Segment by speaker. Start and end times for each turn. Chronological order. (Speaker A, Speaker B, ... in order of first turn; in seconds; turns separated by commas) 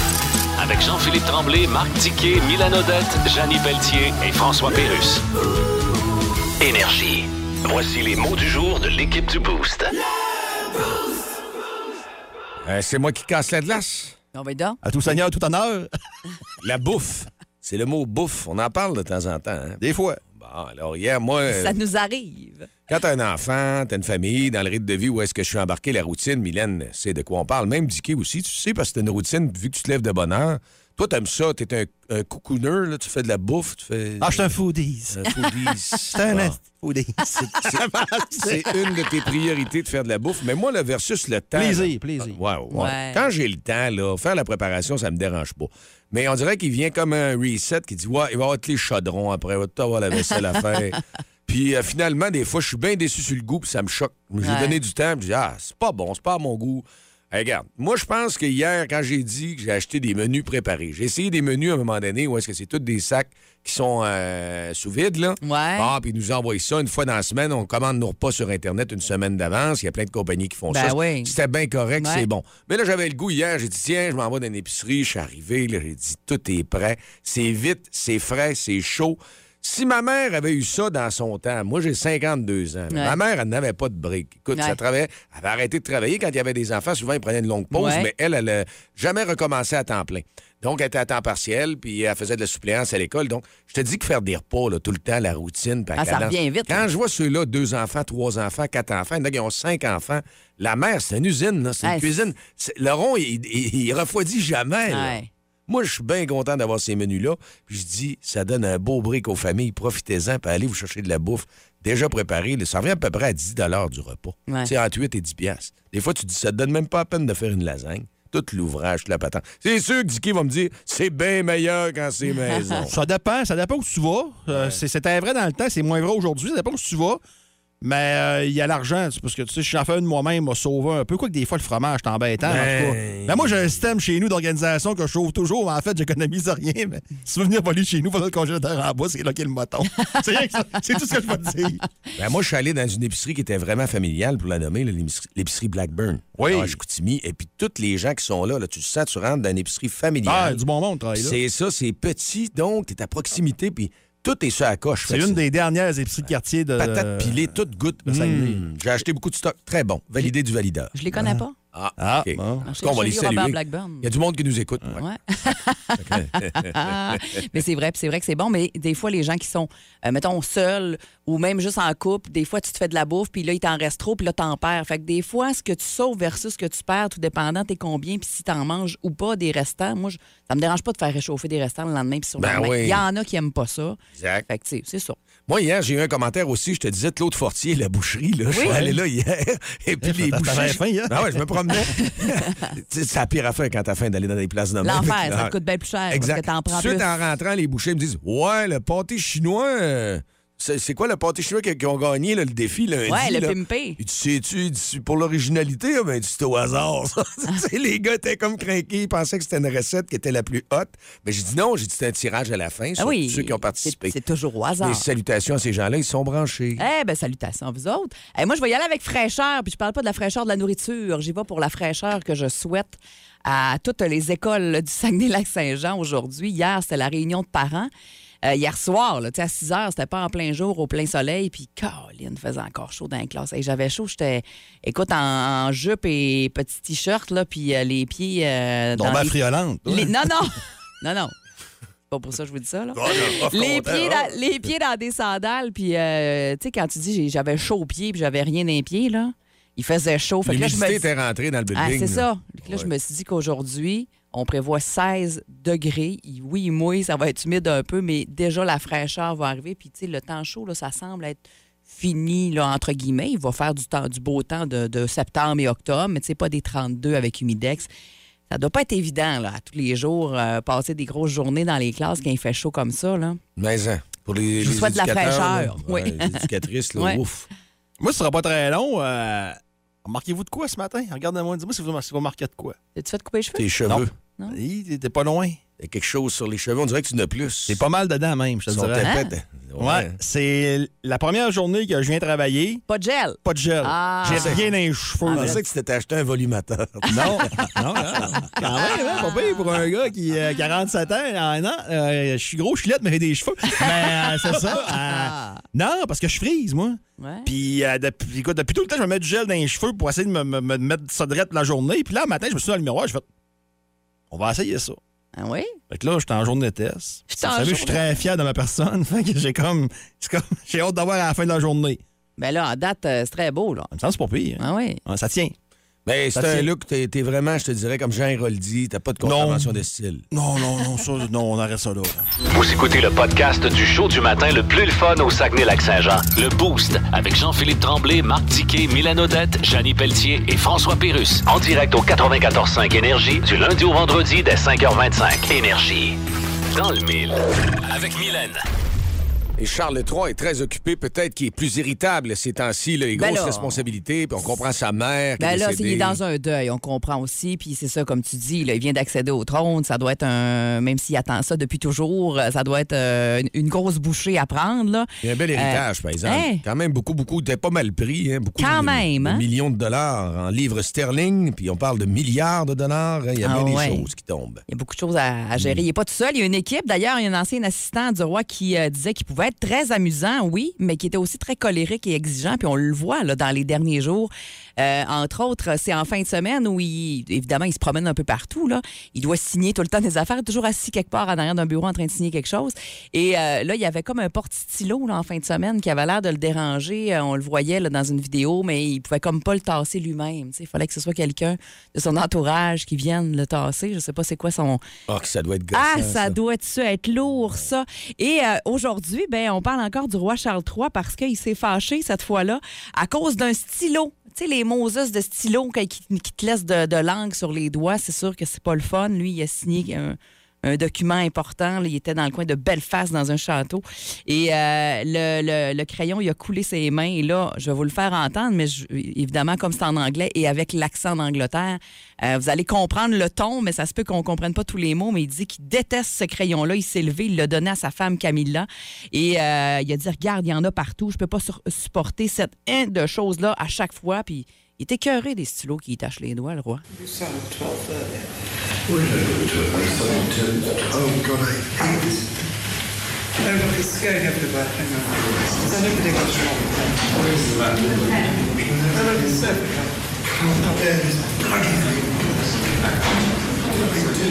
Speaker A: 0.6-5.2, Speaker A: 6.6-9.9, Speaker B: 12.6-14.1, Speaker C: 14.3-14.8, Speaker D: 14.8-15.9, Speaker B: 16.6-19.8, Speaker D: 19.8-20.2, Speaker B: 20.3-21.8, Speaker C: 21.5-22.7, Speaker B: 22.9-34.5, Speaker D: 34.2-39.0, Speaker B: 35.1-36.6, Speaker B: 37.3-122.9, Speaker D: 41.5-42.4, Speaker C: 42.7-43.3, Speaker C: 54.4-54.8, Speaker C: 65.4-65.9, Speaker C: 70.7-71.3, Speaker C: 72.0-72.3, Speaker C: 82.9-83.2, Speaker C: 87.7-88.1, Speaker C: 96.0-96.9, Speaker C: 101.8-102.1, Speaker C: 104.9-105.3, Speaker C: 122.3-122.8, Speaker D: 122.9-127.2, Speaker B: 124.5-124.8, Speaker D: 127.8-141.8, Speaker B: 132.4-133.6, Speaker B: 142.2-150.6, Speaker D: 146.4-146.8, Speaker D: 150.2-151.4, Speaker B: 151.2-155.4, Speaker D: 155.1-158.7, Speaker B: 156.8-160.9, Speaker C: 160.9-161.5, Speaker D: 161.1-161.4, Speaker B: 161.7-165.0, Speaker D: 162.0-162.6, Speaker C: 162.6-164.1, Speaker C: 165.0-185.2, Speaker B: 166.0-167.2, Speaker B: 182.4-183.0, Speaker B: 184.2-184.5, Speaker B: 185.5-195.5, Speaker C: 188.5-188.8, Speaker D: 188.6-189.0, Speaker D: 190.0-191.4, Speaker C: 191.7-192.0, Speaker C: 194.8-197.1, Speaker B: 196.1-214.2, Speaker C: 203.1-204.0, Speaker C: 213.0-215.1, Speaker B: 214.8-216.8, Speaker C: 216.8-227.9, Speaker C: 228.4-241.3, Speaker D: 239.0-240.2, Speaker C: 242.1-251.1, Speaker B: 242.9-244.3, Speaker B: 250.4-252.9, Speaker C: 251.7-267.9, Speaker C: 268.5-273.4, Speaker B: 273.6-277.5, Speaker C: 274.6-277.2, Speaker D: 278.0-282.8, Speaker C: 283.0-283.7, Speaker B: 283.6-284.1, Speaker D: 283.9-285.6, Speaker B: 285.8-287.8, Speaker D: 287.7-289.1, Speaker B: 288.7-290.2, Speaker C: 289.0-289.3, Speaker D: 289.8-292.8, Speaker C: 292.9-294.6, Speaker D: 293.4-295.6, Speaker B: 294.2-294.7, Speaker C: 295.2-295.6, Speaker B: 295.3-298.6, Speaker D: 297.1-313.2, Speaker C: 298.6-299.8, Speaker C: 303.7-305.6, Speaker C: 307.2-307.5, Speaker D: 314.3-315.0, Speaker C: 315.4-315.8, Speaker D: 315.9-322.0, Speaker C: 317.3-318.0, Speaker C: 322.4-323.9, Speaker D: 323.9-325.6, Speaker C: 324.6-325.0, Speaker B: 326.1-330.2, Speaker D: 326.3-326.7, Speaker D: 329.2-332.2, Speaker A: 332.5-346.2, Speaker A: 346.7-348.6, Speaker B: 349.6-356.2, Speaker C: 353.1-353.8, Speaker C: 355.4-366.6, Speaker B: 365.2-374.6, Speaker C: 368.6-369.4, Speaker C: 373.4-374.1, Speaker C: 374.7-404.8, Speaker B: 375.6-375.8, Speaker B: 405.1-406.3, Speaker C: 405.7-446.8, Speaker E: 448.9-450.9